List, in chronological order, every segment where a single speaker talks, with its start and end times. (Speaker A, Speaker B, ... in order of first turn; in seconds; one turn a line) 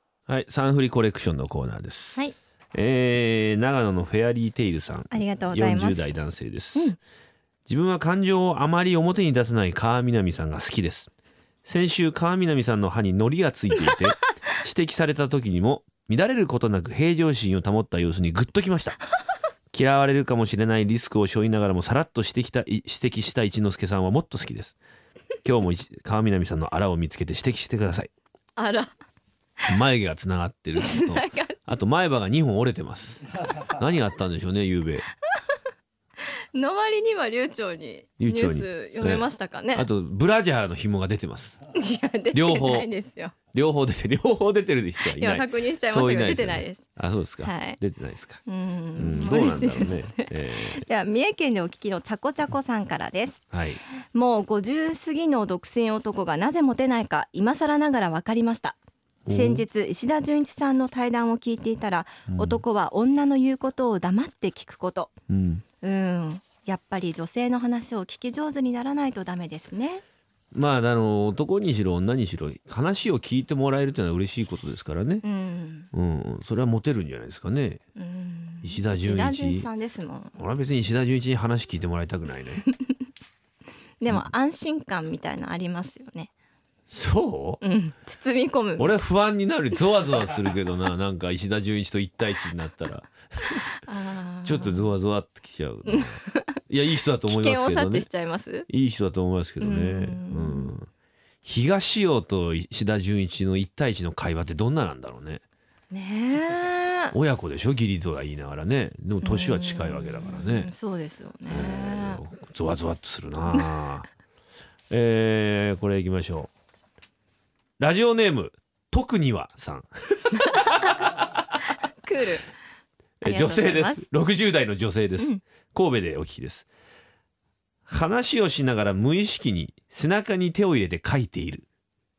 Speaker A: 0.3-2.2
Speaker A: 2.7-7.0
Speaker B: 5.1-6.2
Speaker A: 7.7-11.1
Speaker A: 11.6-19.0
Speaker A: 19.7-24.8
Speaker A: 25.4-28.1
Speaker B: 28.6-28.9
Speaker A: 29.7-35.1
Speaker B: 30.8-31.6
Speaker B: 36.2-39.9
Speaker A: 38.2-41.6
Speaker B: 41.7-43.3
Speaker A: 42.3-42.9
Speaker A: 43.5-48.4
Speaker B: 45.0-46.8
Speaker B: 47.4-47.8
Speaker B: 48.5-53.4
Speaker A: 49.0-50.8
Speaker A: 53.5-53.8
Speaker B: 54.1-58.8
Speaker A: 59.2-59.6
Speaker B: 59.3-65.1
Speaker A: 62.3-62.6
Speaker A: 65.3-65.6
Speaker B: 65.8-70.0
Speaker A: 70.5-75.2
Speaker B: 75.2-75.9
Speaker A: 75.9-77.8
Speaker B: 78.0-80.3
Speaker A: 78.6-79.7
Speaker A: 80.4-82.6
Speaker B: 84.0-86.3
Speaker A: 86.9-87.6
Speaker B: 87.6-88.9
Speaker A: 88.8-93.6
Speaker B: 93.8-94.9
Speaker A: 94.4-98.1
Speaker B: 95.9-96.6
Speaker B: 97.2-98.7
Speaker A: 98.7-100.9
Speaker B: 99.6-100.7
Speaker A: 101.4-105.4
Speaker B: 105.9-107.1
Speaker A: 107.1-110.7
Speaker B: 109.2-112.2
Speaker A: 111.5-114.0
Speaker A: 114.9-116.5
Speaker A: 117.8-121.3
Speaker B: 120.3-121.0
Speaker B: 122.0-122.5
Speaker A: 123.2-126.7
Speaker B: 123.2-124.0
Speaker A: 127.9-131.7